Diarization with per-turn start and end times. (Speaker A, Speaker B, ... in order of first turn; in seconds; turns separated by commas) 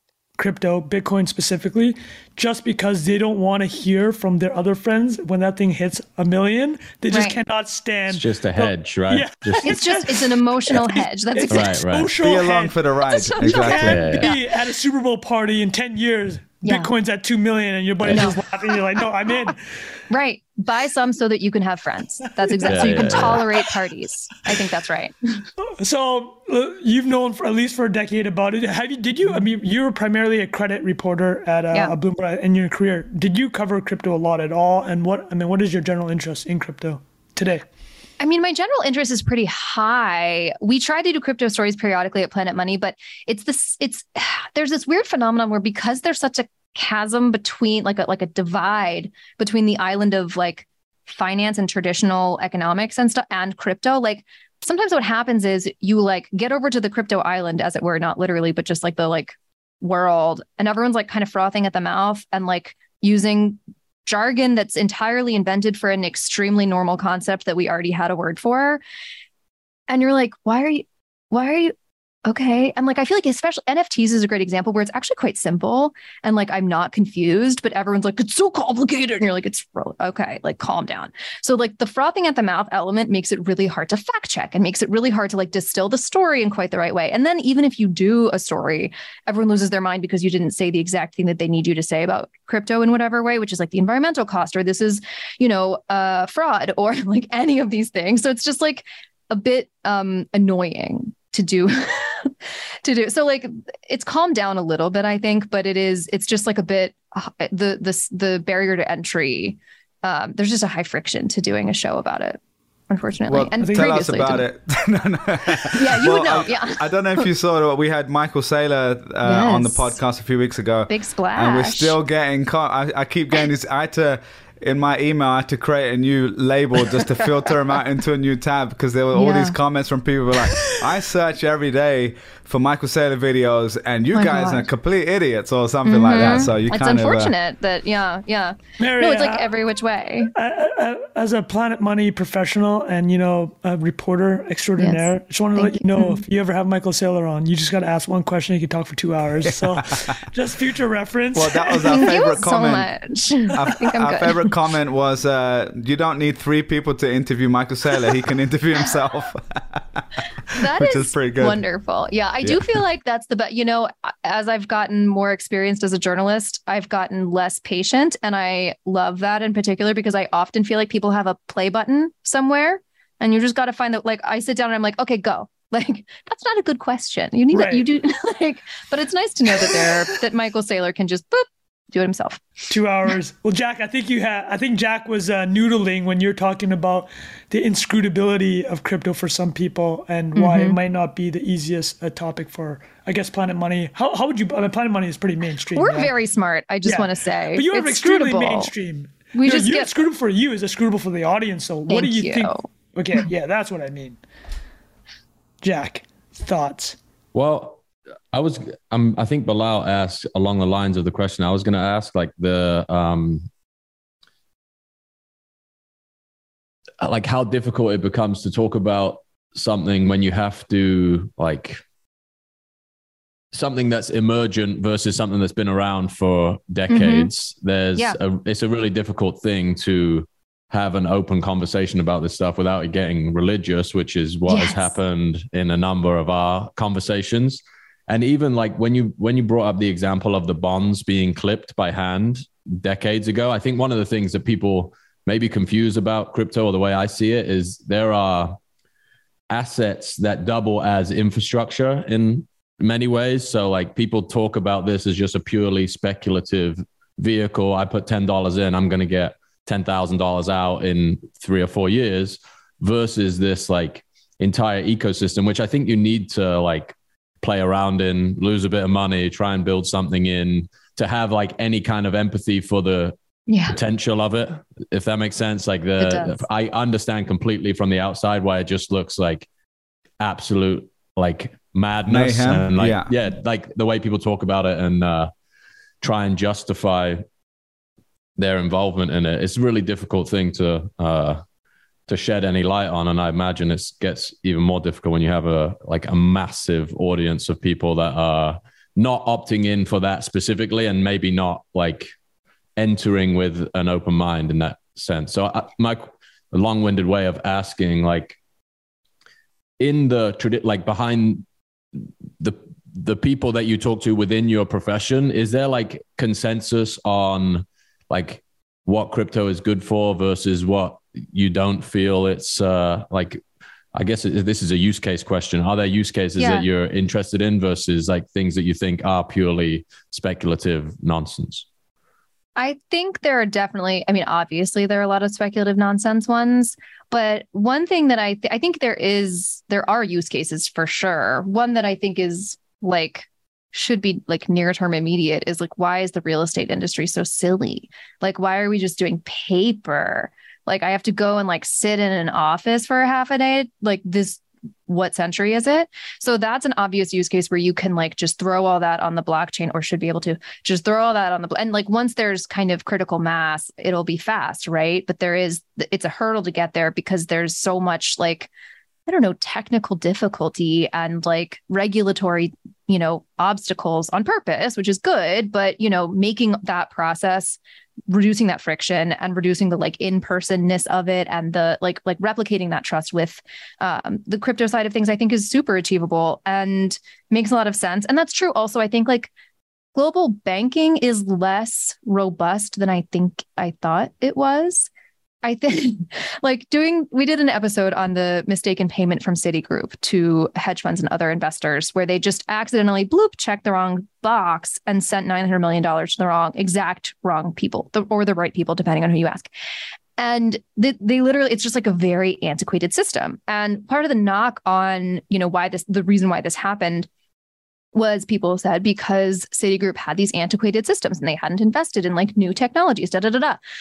Speaker A: 0.4-12.8, Speaker B: 7.1-7.4, Speaker C: 8.1-10.1, Speaker B: 9.6-11.8, Speaker C: 11.5-12.1, Speaker D: 12.2-14.0, Speaker B: 13.1-14.4, Speaker A: 13.4-19.8, Speaker C: 13.9-14.3, Speaker B: 16.6-16.9, Speaker C: 18.0-18.3, Speaker B: 18.1-18.4, Speaker B: 20.1-25.5, Speaker A: 22.4-23.7, Speaker C: 22.6-23.5, Speaker A: 25.6-37.6, Speaker B: 38.2-68.8, Speaker B: 69.9-71.7, Speaker B: 72.3-112.4, Speaker B: 112.9-114.4, Speaker D: 113.3-137.3, Speaker A: 113.6-114.0, Speaker B: 115.7-117.3, Speaker B: 119.2-119.9, Speaker B: 120.9-121.9, Speaker B: 129.1-129.6, Speaker B: 134.1-134.7, Speaker B: 135.8-140.3, Speaker A: 138.8-139.6, Speaker A: 140.3-152.0, Speaker B: 144.8-146.2, Speaker D: 149.6-150.1, Speaker D: 151.3-152.9, Speaker B: 151.9-154.5, Speaker D: 153.5-159.8, Speaker B: 160.5-182.5, Speaker D: 160.6-161.6, Speaker A: 177.5-177.9, Speaker A: 179.5-179.9, Speaker A: 182.7-196.1, Speaker B: 190.3-190.8, Speaker B: 195.8-198.7, Speaker A: 196.8-204.2, Speaker B: 199.3-199.9, Speaker B: 201.9-202.6, Speaker A: 205.6-207.0, Speaker C: 207.3-207.8, Speaker C: 208.3-213.5, Speaker C: 217.0-221.8, Speaker C: 223.5-248.6, Speaker B: 226.9-227.3, Speaker B: 234.5-234.9, Speaker C: 249.5-273.1, Speaker B: 273.5-273.8, Speaker C: 273.7-279.5, Speaker B: 276.0-276.4, Speaker C: 280.2-285.3, Speaker D: 282.1-283.1, Speaker C: 286.0-287.2, Speaker C: 288.4-291.4, Speaker C: 292.1-302.1, Speaker C: 302.8-308.4, Speaker C: 309.8-323.4, Speaker C: 323.9-331.6, Speaker B: 326.4-326.6, Speaker B: 332.6-368.5, Speaker B: 369.1-389.3, Speaker B: 389.9-394.9, Speaker B: 395.4-409.5, Speaker B: 410.2-417.1, Speaker B: 417.9-423.6